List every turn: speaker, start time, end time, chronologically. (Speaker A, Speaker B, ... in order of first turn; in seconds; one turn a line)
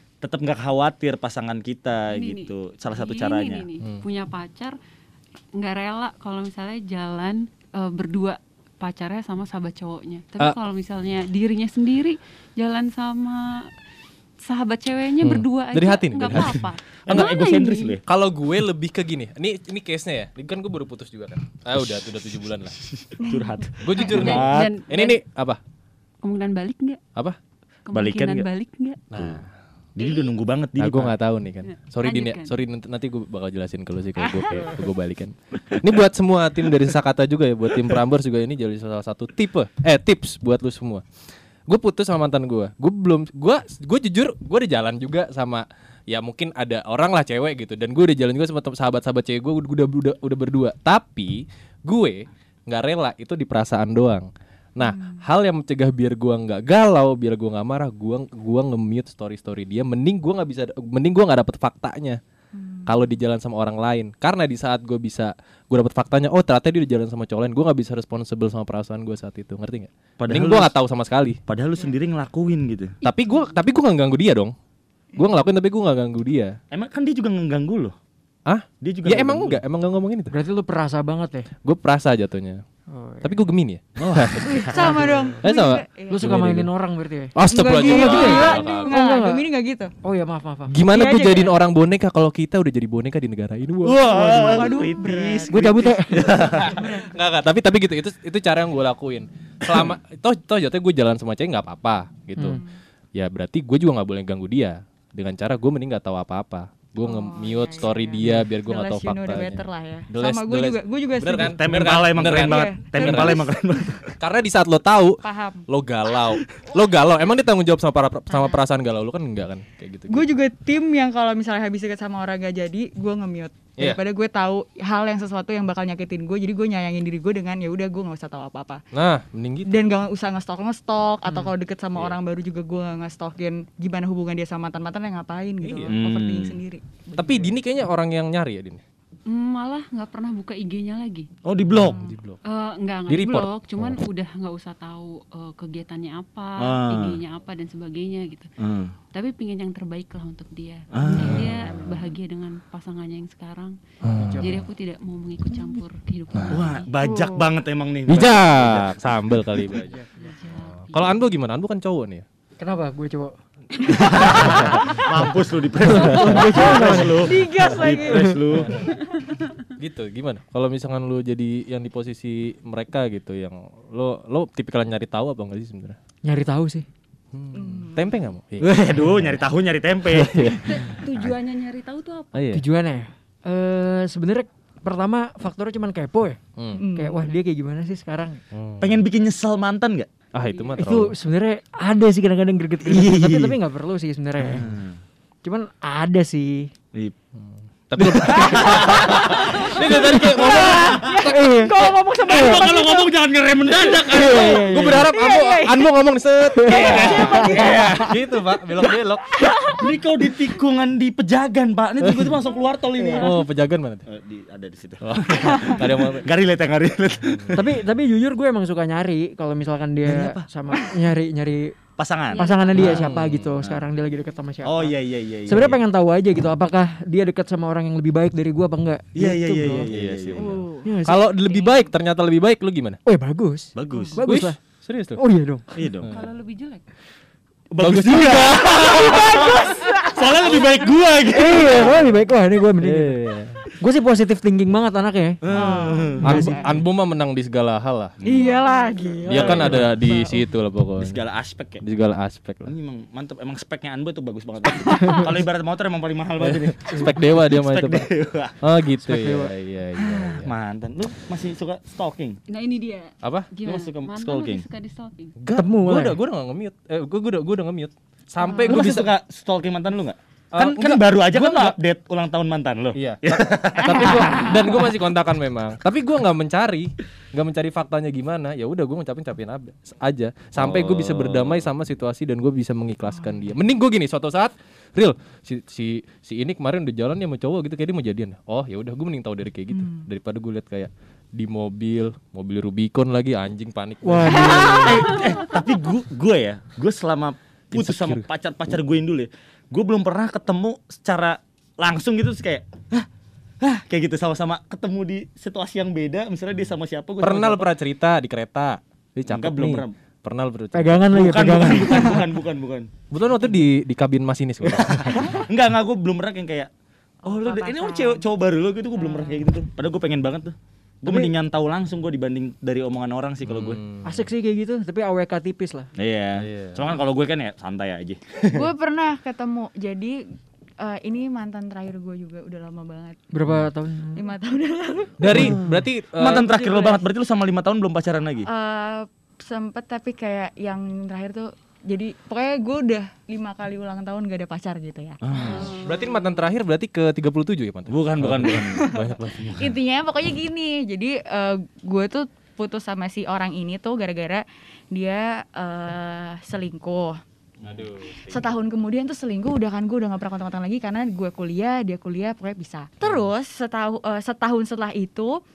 Speaker A: 0.2-3.6
Speaker B: 2.1-4.8
Speaker B: 5.5-13.7
Speaker B: 14.4-18.0
Speaker C: 15.2-17.3
Speaker A: 17.1-18.0
Speaker C: 18.0-22.9
Speaker A: 22.8-24.7
Speaker C: 23.8-25.6
Speaker B: 23.9-25.2
Speaker B: 26.2-27.0
Speaker B: 27.9-29.0
Speaker A: 27.9-28.4
Speaker C: 29.1-29.5
Speaker A: 29.1-29.4
Speaker A: 29.9-31.1
Speaker C: 30.8-41.0
Speaker B: 31.7-32.5
Speaker C: 41.7-62.2
Speaker D: 54.8-55.2
Speaker D: 62.5-62.9
Speaker C: 62.9-71.4
Speaker A: 70.2-70.7
Speaker A: 71.5-73.0
Speaker C: 73.0-74.5
Speaker C: 75.2-76.6
Speaker A: 76.7-77.9
Speaker C: 78.5-80.3
Speaker A: 78.8-79.6
Speaker E: 80.3-81.5
Speaker C: 81.6-82.6
Speaker E: 82.9-83.4
Speaker C: 83.2-86.7
Speaker D: 84.4-86.4
Speaker E: 84.8-85.3
Speaker E: 86.1-89.4
Speaker C: 87.3-88.9
Speaker D: 87.5-89.9
Speaker E: 90.0-90.8
Speaker C: 90.7-94.7
Speaker D: 90.9-91.5
Speaker A: 93.8-96.9
Speaker D: 94.0-97.1
Speaker E: 95.5-96.4
Speaker C: 96.5-102.6
Speaker C: 103.1-113.5
Speaker D: 107.0-111.6
Speaker A: 111.3-114.1
Speaker D: 112.4-113.5
Speaker C: 114.2-120.3
Speaker D: 115.2-115.6
Speaker D: 118.3-118.6
Speaker D: 120.1-128.8
Speaker C: 128.9-129.8
Speaker D: 129.7-137.5
Speaker C: 135.6-136.0
Speaker A: 135.9-136.6
Speaker C: 137.2-138.8
Speaker B: 139.3-141.3
Speaker A: 141.4-142.0
Speaker C: 141.7-142.4
Speaker B: 142.4-148.5
Speaker C: 143.1-143.9
Speaker A: 146.6-147.2
Speaker A: 148.6-148.9
Speaker B: 149.1-153.8
Speaker A: 150.9-151.7
Speaker C: 151.0-152.0
Speaker C: 154.0-154.6
Speaker E: 154.1-154.6
Speaker B: 154.4-156.9
Speaker C: 156.3-156.6
Speaker A: 156.5-159.6
Speaker D: 157.0-157.5
Speaker C: 158.1-160.0
Speaker E: 159.9-160.3
Speaker B: 160.1-161.2
Speaker C: 160.6-162.2
Speaker E: 162.6-163.3
Speaker E: 163.9-165.0
Speaker A: 163.9-168.8
Speaker D: 164.2-165.0
Speaker C: 164.4-164.8
Speaker E: 165.8-168.4
Speaker C: 165.9-166.3
Speaker D: 166.6-168.9
Speaker C: 168.5-168.9
Speaker C: 169.8-176.0
Speaker E: 176.2-176.8
Speaker C: 177.3-179.4
Speaker D: 177.5-178.2
Speaker A: 178.6-180.6
Speaker C: 180.0-181.0
Speaker B: 180.7-182.4
Speaker C: 182.3-182.6
Speaker E: 182.5-186.4
Speaker C: 186.6-186.8
Speaker D: 186.7-187.3
Speaker E: 186.9-188.4
Speaker C: 188.5-189.0
Speaker A: 188.8-190.1
Speaker C: 190.3-191.1
Speaker B: 190.5-190.8
Speaker E: 190.8-194.7
Speaker A: 192.8-193.6
Speaker A: 194.5-195.0
Speaker E: 195.4-196.7
Speaker C: 197.4-201.1
Speaker A: 197.9-199.7
Speaker D: 199.4-203.1
Speaker E: 199.7-202.6
Speaker A: 200.4-201.2
Speaker A: 202.2-205.1
Speaker C: 204.1-209.3
Speaker E: 204.1-205.1
Speaker D: 205.1-205.9
Speaker E: 206.5-207.4
Speaker A: 206.6-208.1
Speaker D: 206.7-208.1
Speaker D: 209.3-209.9
Speaker A: 209.7-213.4
Speaker C: 212.0-212.3
Speaker C: 213.2-214.0
Speaker A: 214.1-217.7
Speaker C: 215.0-216.3
Speaker C: 217.3-217.6
Speaker E: 217.5-221.7
Speaker A: 220.1-220.5
Speaker A: 222.0-223.1
Speaker B: 222.3-223.0
Speaker E: 222.3-229.9
Speaker C: 222.7-223.6
Speaker A: 224.6-225.8
Speaker A: 229.2-230.6
Speaker C: 229.9-233.0
Speaker D: 230.4-231.9
Speaker E: 230.8-231.2
Speaker E: 233.1-234.6
Speaker A: 233.7-234.2
Speaker C: 234.2-235.2
Speaker E: 235.2-235.7
Speaker A: 235.7-236.1
Speaker B: 236.1-236.8
Speaker A: 237.7-242.0
Speaker C: 237.8-239.2
Speaker D: 238.9-240.7
Speaker E: 241.3-243.2
Speaker C: 242.8-243.6
Speaker E: 243.8-245.4
Speaker A: 245.4-246.3
Speaker D: 245.5-246.7
Speaker E: 246.2-246.6
Speaker C: 246.2-248.2
Speaker A: 248.2-248.5
Speaker D: 248.2-250.5
Speaker C: 249.2-251.2
Speaker A: 249.3-249.9
Speaker A: 251.0-251.8
Speaker C: 251.8-252.7
Speaker A: 252.6-258.6
Speaker C: 256.4-258.1
Speaker C: 258.6-260.5
Speaker E: 259.0-259.5
Speaker A: 260.4-262.4
Speaker B: 262.5-265.3
Speaker C: 263.2-263.5
Speaker A: 263.6-264.6
Speaker C: 265.4-269.1
Speaker E: 265.5-266.2
Speaker B: 268.4-268.9
Speaker A: 268.6-274.9
Speaker C: 270.5-271.8
Speaker C: 272.9-294.9
Speaker D: 274.0-274.4
Speaker A: 280.6-281.6
Speaker D: 289.7-290.0
Speaker E: 294.0-295.1
Speaker B: 294.6-295.5
Speaker A: 294.7-303.1
Speaker C: 297.7-298.2
Speaker A: 303.6-307.6
Speaker C: 307.2-311.6
Speaker A: 309.3-309.9
Speaker E: 310.7-312.2
Speaker A: 311.1-312.9
Speaker C: 313.1-315.4
Speaker A: 314.6-316.7
Speaker D: 317.2-318.3
Speaker A: 317.2-323.8
Speaker D: 318.9-319.4
Speaker E: 321.1-321.3
Speaker C: 323.4-324.2
Speaker E: 324.0-325.9
Speaker A: 326.0-328.7
Speaker C: 326.4-326.8
Speaker D: 328.5-330.2
Speaker D: 330.8-333.2
Speaker E: 333.3-334.2
Speaker D: 334.1-335.3
Speaker C: 335.2-336.5
Speaker A: 335.3-338.5
Speaker D: 336.4-337.0
Speaker D: 338.4-345.2
Speaker A: 345.2-345.6
Speaker B: 345.3-346.4
Speaker C: 345.4-349.6
Speaker A: 347.9-349.7
Speaker D: 348.7-357.2
Speaker A: 357.6-357.9
Speaker C: 357.6-358.3
Speaker D: 358.3-365.4